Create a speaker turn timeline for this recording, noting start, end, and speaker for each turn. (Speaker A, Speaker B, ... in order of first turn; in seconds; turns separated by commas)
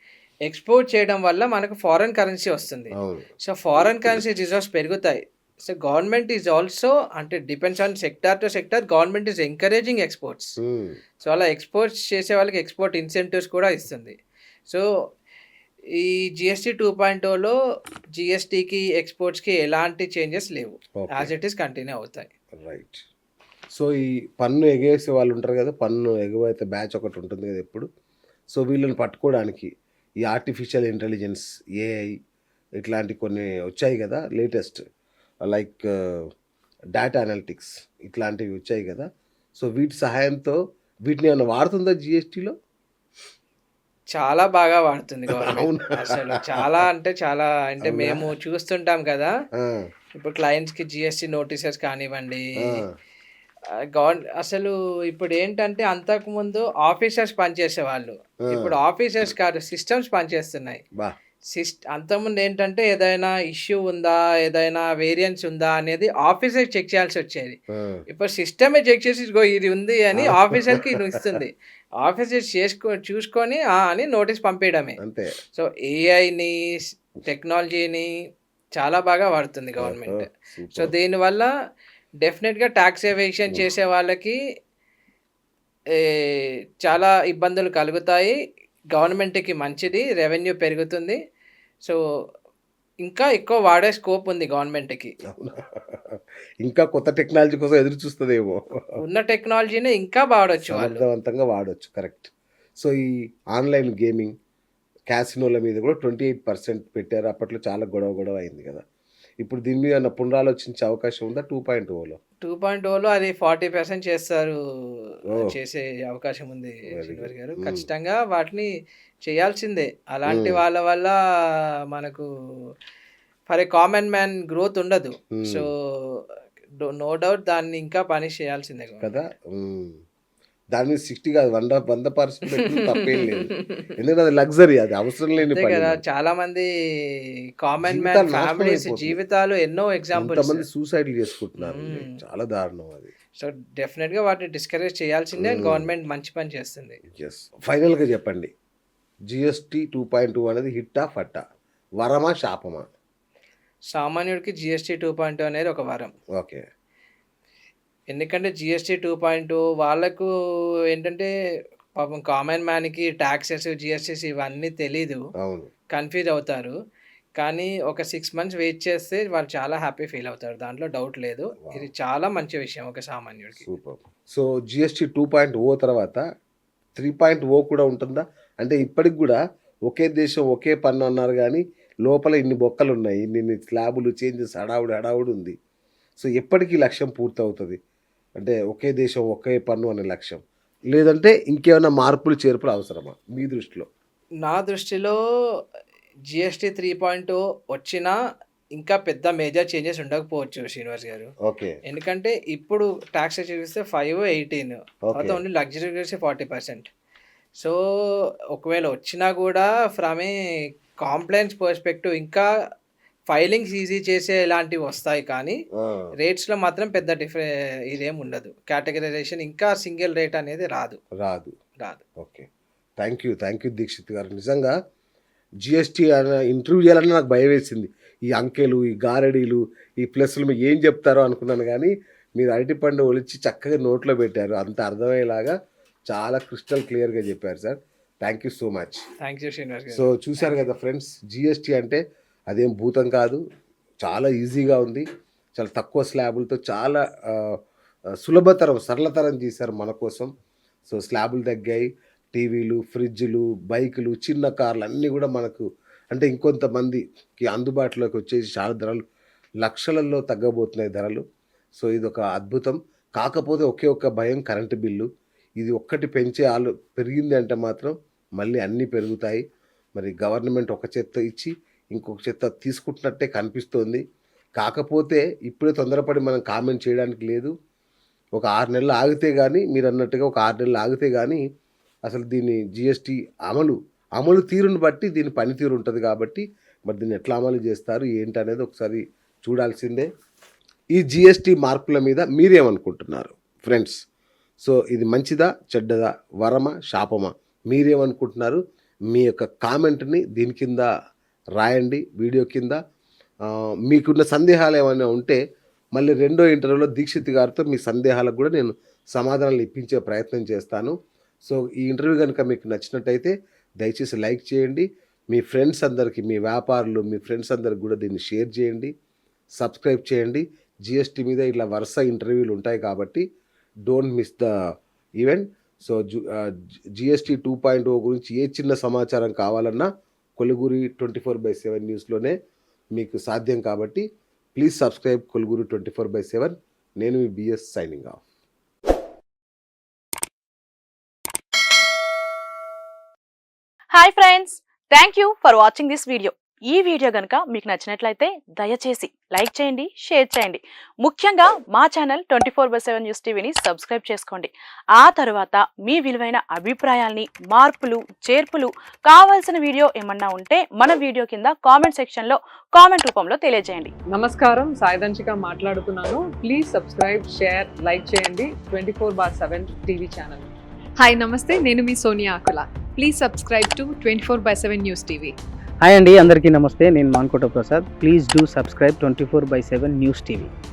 Speaker A: 0.5-10.6, Speaker B: 2.9-3.3, Speaker B: 10.6-11.0, Speaker A: 11.2-14.2, Speaker A: 15.9-17.6, Speaker A: 18.1-22.3, Speaker B: 21.0-21.3, Speaker B: 22.5-23.0, Speaker B: 23.7-27.9, Speaker B: 28.5-29.7, Speaker B: 30.2-32.2, Speaker B: 32.8-34.8, Speaker B: 35.5-36.3, Speaker B: 36.9-42.5, Speaker A: 44.1-49.3, Speaker B: 45.3-46.8, Speaker B: 47.8-48.3, Speaker B: 49.6-49.8, Speaker A: 50.1-52.8, Speaker A: 53.7-60.8, Speaker B: 58.5-58.8, Speaker A: 61.5-75.0, Speaker B: 67.7-68.0, Speaker B: 70.1-71.3, Speaker B: 75.0-75.3, Speaker A: 75.5-78.1, Speaker A: 78.8-81.5, Speaker B: 79.8-80.9, Speaker A: 82.2-84.4, Speaker A: 85.9-88.4, Speaker A: 88.9-91.2, Speaker A: 93.0-95.1, Speaker B: 95.3-98.8, Speaker A: 99.0-101.0, Speaker B: 100.7-104.3, Speaker B: 105.1-108.8, Speaker B: 109.4-112.2, Speaker A: 112.4-118.7, Speaker B: 116.9-117.9, Speaker A: 119.2-122.3, Speaker B: 120.3-120.6, Speaker A: 123.5-126.2, Speaker B: 125.3-125.7, Speaker A: 126.8-129.1, Speaker B: 129.0-130.0, Speaker B: 130.7-136.0, Speaker A: 132.6-133.9, Speaker A: 135.4-140.7, Speaker B: 137.8-139.2, Speaker B: 140.2-143.1, Speaker A: 141.6-142.2, Speaker A: 143.4-147.0, Speaker B: 145.4-145.9, Speaker B: 147.1-148.5, Speaker B: 149.3-151.4, Speaker B: 152.0-152.8, Speaker A: 153.9-156.1, Speaker B: 156.3-156.6, Speaker A: 158.1-160.3, Speaker A: 160.9-161.3, Speaker A: 162.0-165.2, Speaker B: 165.4-165.7, Speaker A: 165.9-166.8, Speaker A: 167.4-173.7, Speaker B: 171.6-171.9, Speaker B: 173.6-176.2, Speaker B: 177.0-185.6, Speaker B: 186.2-187.8, Speaker B: 188.4-190.4, Speaker B: 190.9-193.9, Speaker A: 194.4-195.6, Speaker A: 196.3-198.2, Speaker A: 198.8-201.3, Speaker B: 201.4-201.8, Speaker A: 201.8-206.9, Speaker B: 205.1-205.4, Speaker A: 207.6-210.3, Speaker A: 211.0-212.5, Speaker A: 213.3-215.6, Speaker B: 215.8-216.1, Speaker A: 216.2-221.0, Speaker B: 221.2-221.5, Speaker A: 221.8-222.0, Speaker B: 222.2-222.5, Speaker B: 223.0-224.8, Speaker B: 225.6-235.5, Speaker B: 236.1-239.0, Speaker A: 239.2-240.7, Speaker B: 239.9-243.4, Speaker B: 244.0-245.1, Speaker B: 245.6-247.6, Speaker B: 248.2-250.3, Speaker B: 250.9-259.0, Speaker B: 259.6-261.2, Speaker B: 261.8-265.1, Speaker B: 265.6-269.4, Speaker B: 269.9-274.0, Speaker B: 274.6-277.5, Speaker B: 278.4-281.4, Speaker B: 282.1-290.1, Speaker B: 290.9-294.0, Speaker B: 294.6-298.6, Speaker B: 299.1-300.9, Speaker B: 301.6-302.8, Speaker B: 303.9-305.4, Speaker B: 305.9-318.9, Speaker B: 319.6-323.2, Speaker B: 323.9-324.5, Speaker B: 325.2-332.4, Speaker B: 332.9-338.2, Speaker C: 343.9-363.9, Speaker D: 364.1-370.5, Speaker E: 371.0-375.3, Speaker F: 375.8-380.5